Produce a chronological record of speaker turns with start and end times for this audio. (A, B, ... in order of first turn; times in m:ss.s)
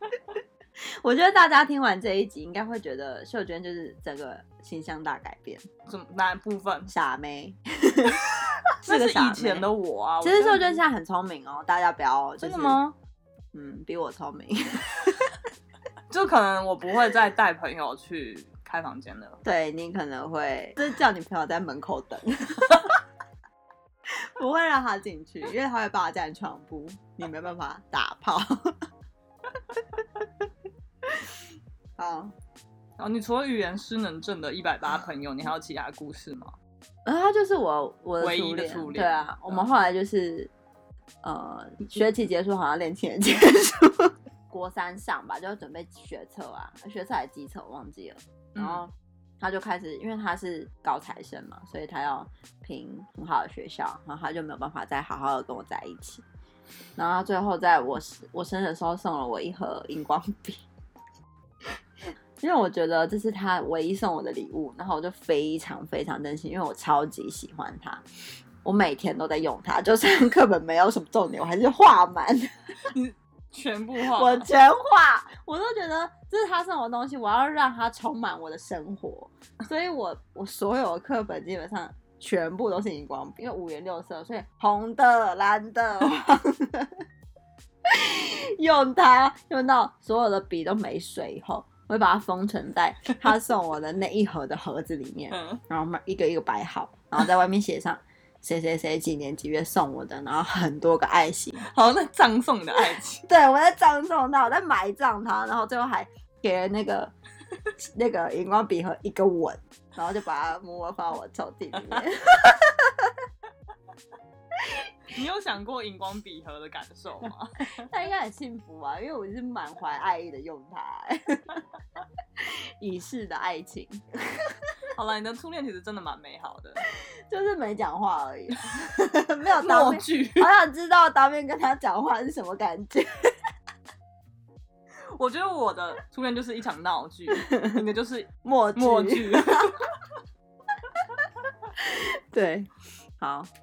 0:00.8-0:05.6 A
0:05.9-0:06.9 B
0:06.9-0:09.6 A
0:08.1-0:10.8 B
0:10.2-0:12.8 A
0:12.4-0:12.9 B
0:13.5-0:15.4 A
0:16.1-0:19.4 B
0:19.4-0:23.0 A
0:24.0-0:28.8 A
0:29.8-0:30.3 A
0:31.0-0:31.3 A
0:32.0-0:32.3 A
0:33.0-0:36.5 B
0:37.0-0:40.5 A
0:38.2-0:39.6 B
0:41.2-0:56.2 A
0:48.5-0:48.8 B
0:57.0-1:00.6 A
1:02.4-1:08.0 A
1:08.6-1:12.5 A
1:12.8-1:14.5 B
1:14.0-1:27.0 A
1:27.8-1:41.6 A
1:35.3-1:35.6 B
1:41.6-1:43.2 B
1:43.3-1:47.1 A
1:47.8-1:53.2 A
1:54.6-1:54.9 A
1:55.1-1:57.7 B
1:57.8-2:01.6 A
2:02.4-2:04.7 A
2:04.9-2:06.8 B
2:07.3-2:13.3 A
2:09.6-2:10.5 B
2:15.1-2:19.9 B
2:17.4-2:17.8 A
2:18.4-2:19.8 A
2:21.0-2:21.2 A
2:21.8-2:23.5 A